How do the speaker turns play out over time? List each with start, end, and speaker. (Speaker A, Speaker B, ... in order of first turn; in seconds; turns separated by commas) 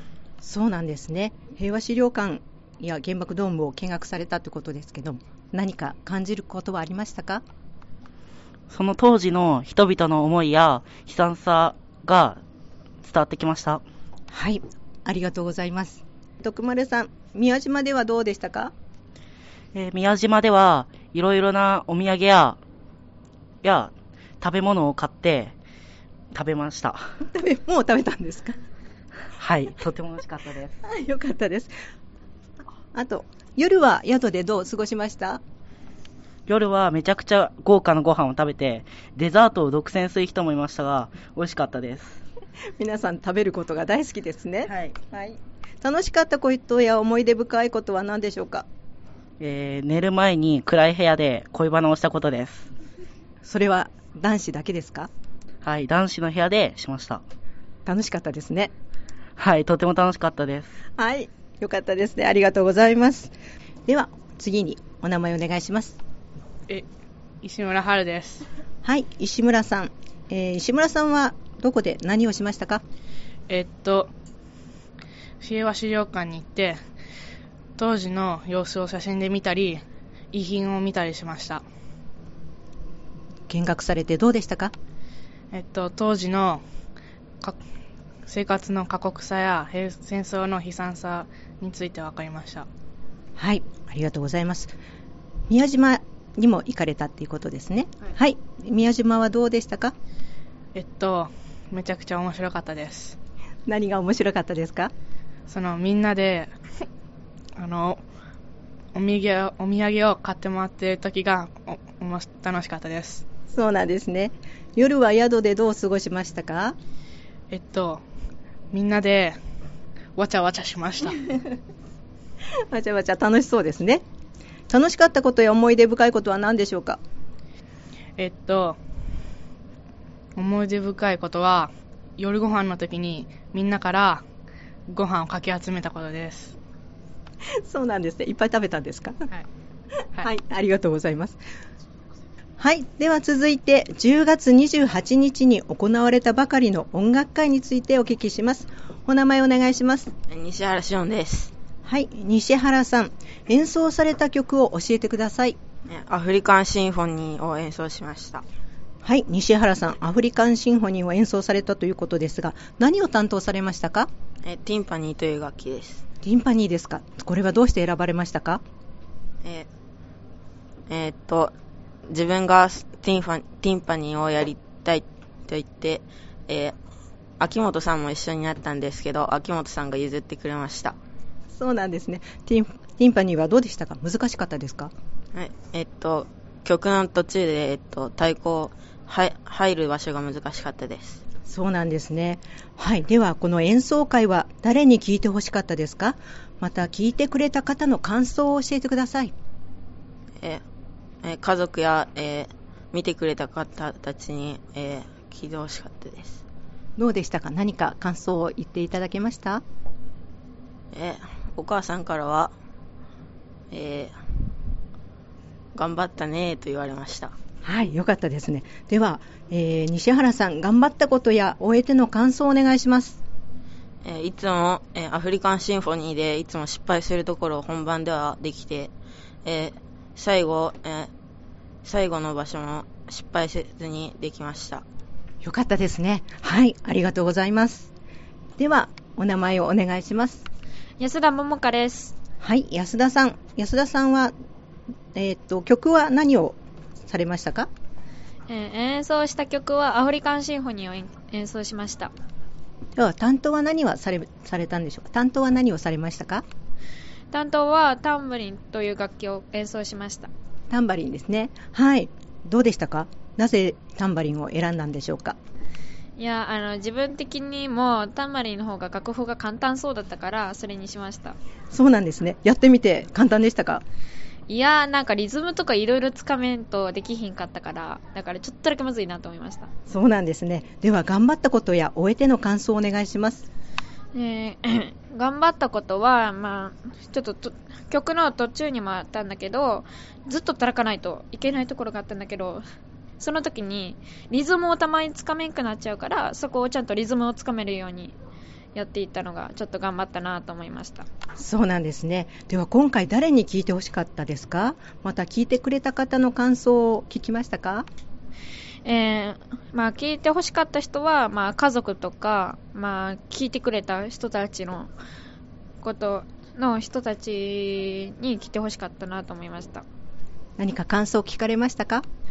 Speaker A: 0.4-7.4, Speaker B: 8.7-12.4, Speaker B: 13.0-13.8, Speaker A: 14.3-18.7, Speaker B: 19.7-22.6, Speaker B: 23.6-25.6, Speaker B: 26.3-27.0, Speaker A: 27.3-28.6, Speaker B: 29.4-30.8, Speaker A: 30.9-31.7, Speaker A: 32.9-35.4, Speaker B: 36.5-42.2, Speaker A: 42.8-48.7, Speaker B: 49.4-52.7, Speaker A: 53.4-55.1, Speaker B: 55.6-57.2, Speaker A: 57.9-58.7, Speaker B: 59.4-60.7, Speaker A: 61.0-63.3, Speaker A: 63.9-66.0, Speaker C: 67.4-68.5, Speaker A: 68.8-72.8, Speaker C: 73.5-74.1, Speaker C: 75.4-76.8, Speaker C: 77.8-81.6, Speaker A: 83.5-84.7, Speaker C: 85.5-86.6, Speaker C: 88.2-92.7, Speaker A: 93.4-94.8, Speaker A: 95.5-100.0, Speaker C: 100.8-103.2, Speaker A: 103.7-104.9, Speaker C: 105.5-106.5, Speaker C: 107.6-108.0, Speaker C: 108.9-113.2, Speaker A: 113.5-116.8, Speaker C: 117.5-118.0, Speaker C: 118.7-119.4, Speaker C: 120.2-121.2, Speaker A: 122.7-124.0, Speaker A: 124.7-127.0, Speaker C: 128.2-128.8, Speaker C: 130.4-134.2, Speaker C: 134.9-136.6, Speaker A: 137.7-139.2, Speaker A: 140.2-141.4, Speaker A: 142.6-150.1, Speaker D: 150.3-151.5, Speaker A: 151.8-155.6, Speaker D: 155.9-158.4, Speaker A: 159.0-164.1, Speaker D: 164.4-166.0, Speaker A: 166.2-168.6, Speaker D: 170.9-171.5, Speaker D: 172.1-176.8, Speaker D: 177.4-181.0, Speaker A: 181.5-184.9, Speaker D: 185.3-191.2, Speaker A: 191.5-199.3, Speaker D: 201.2-206.4, Speaker A: 207.0-209.6, Speaker D: 210.9-212.5, Speaker D: 213.7-214.2, Speaker D: 215.8-217.3, Speaker A: 217.6-223.2, Speaker D: 224.0-228.9, Speaker D: 229.4-231.1, Speaker D: 231.8-234.8, Speaker A: 235.4-237.9, Speaker A: 238.6-240.5, Speaker E: 241.0-242.2, Speaker A: 242.4-244.3, Speaker A: 245.2-247.7, Speaker E: 248.5-252.1, Speaker A: 253.0-256.4, Speaker E: 257.3-260.3, Speaker A: 260.7-265.4, Speaker E: 266.2-271.4, Speaker A: 271.7-273.8, Speaker E: 274.5-279.7, Speaker A: 279.9-283.5, Speaker E: 284.1-292.6, Speaker E: 293.2-298.1, Speaker E: 298.8-301.1, Speaker A: 301.4-307.9, Speaker E: 308.9-314.9, Speaker E: 315.8-319.8, Speaker A: 320.6-322.1